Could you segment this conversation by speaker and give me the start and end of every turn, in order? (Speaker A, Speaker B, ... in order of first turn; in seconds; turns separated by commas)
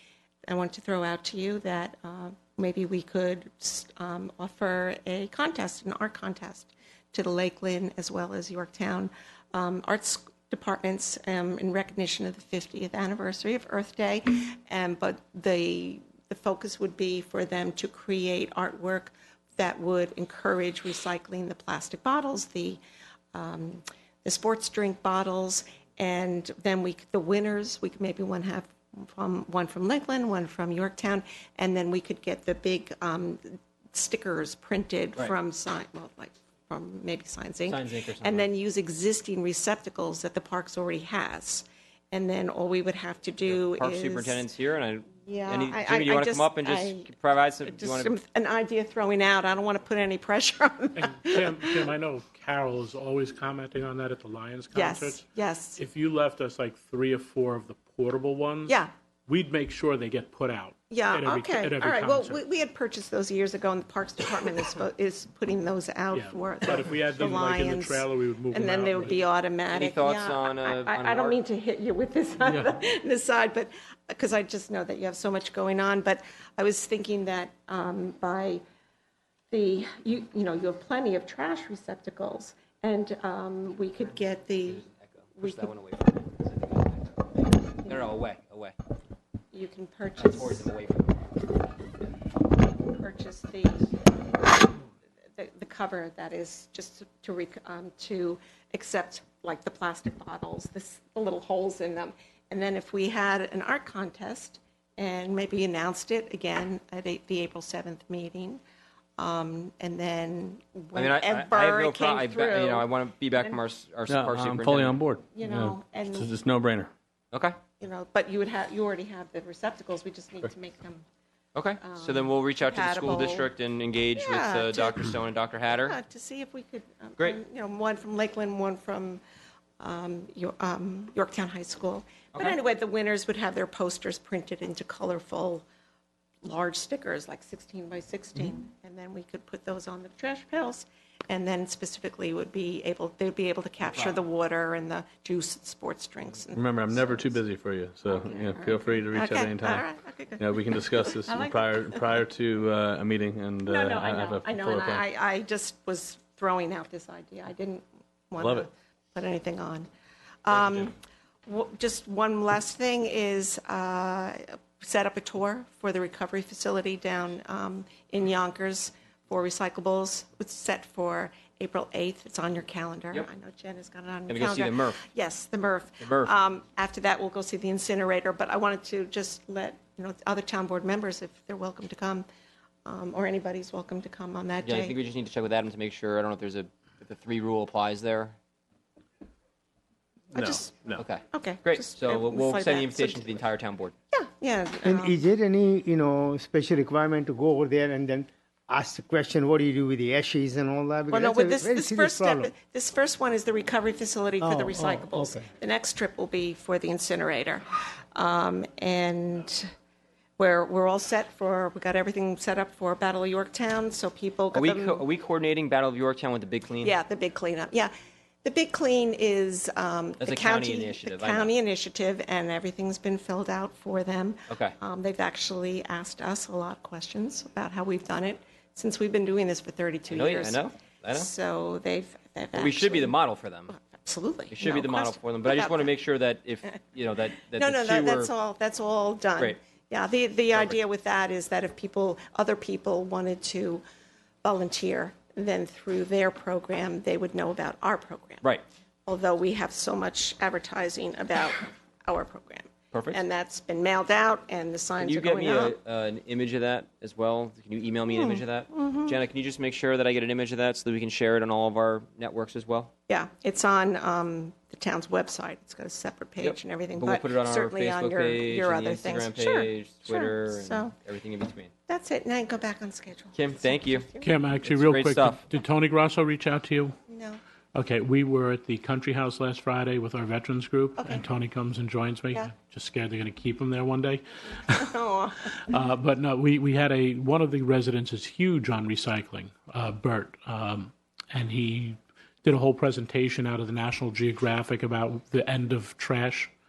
Speaker A: 0.5-22.8, Speaker A: 23.3-44.5, Speaker B: 37.7-38.5, Speaker B: 43.5-48.1, Speaker A: 45.1-47.1, Speaker A: 47.7-51.9, Speaker C: 51.0-55.3, Speaker A: 54.7-55.8, Speaker C: 55.8-62.4, Speaker A: 60.9-78.6, Speaker C: 66.1-69.2, Speaker B: 69.7-71.4, Speaker A: 79.5-84.8, Speaker B: 84.7-88.8, Speaker A: 85.4-85.7, Speaker A: 87.9-88.1, Speaker A: 89.5-90.7, Speaker B: 90.2-91.2, Speaker A: 93.0-93.9, Speaker A: 95.3-108.6, Speaker A: 109.2-112.9, Speaker B: 111.0-115.0, Speaker D: 114.1-116.9, Speaker A: 115.3-116.3, Speaker B: 117.3-117.6, Speaker A: 117.8-121.0, Speaker B: 121.5-126.0, Speaker A: 121.8-123.5, Speaker A: 124.2-125.0, Speaker A: 125.8-129.2, Speaker A: 129.8-135.7, Speaker A: 136.4-147.4, Speaker B: 143.8-144.2, Speaker D: 146.6-149.9, Speaker A: 148.1-152.3, Speaker D: 150.4-155.0, Speaker A: 153.7-159.9, Speaker D: 158.4-158.7, Speaker A: 160.4-160.9, Speaker A: 161.5-182.3, Speaker B: 174.3-175.0, Speaker B: 176.0-176.3, Speaker A: 182.9-184.9, Speaker B: 184.6-188.3, Speaker A: 190.3-193.3, Speaker B: 190.9-193.9, Speaker A: 194.1-195.2, Speaker E: 194.8-202.5, Speaker A: 201.1-209.7, Speaker E: 204.4-205.5, Speaker A: 210.4-215.0, Speaker B: 214.5-216.9, Speaker A: 216.8-217.9, Speaker A: 218.4-233.2, Speaker B: 220.2-221.5, Speaker B: 224.5-224.8, Speaker B: 230.1-231.3, Speaker B: 232.6-233.7, Speaker A: 233.7-235.9, Speaker B: 234.5-238.3, Speaker A: 237.6-243.8, Speaker A: 244.4-248.4, Speaker A: 249.1-255.8, Speaker B: 252.9-253.2, Speaker B: 255.0-262.9, Speaker A: 258.1-259.2, Speaker A: 263.1-270.9, Speaker B: 266.4-271.7, Speaker A: 271.9-274.4, Speaker B: 273.3-274.1, Speaker C: 274.2-277.0, Speaker B: 274.6-275.4, Speaker A: 277.1-277.4, Speaker C: 277.7-284.8, Speaker A: 281.0-281.2, Speaker A: 284.7-285.7, Speaker C: 285.7-296.5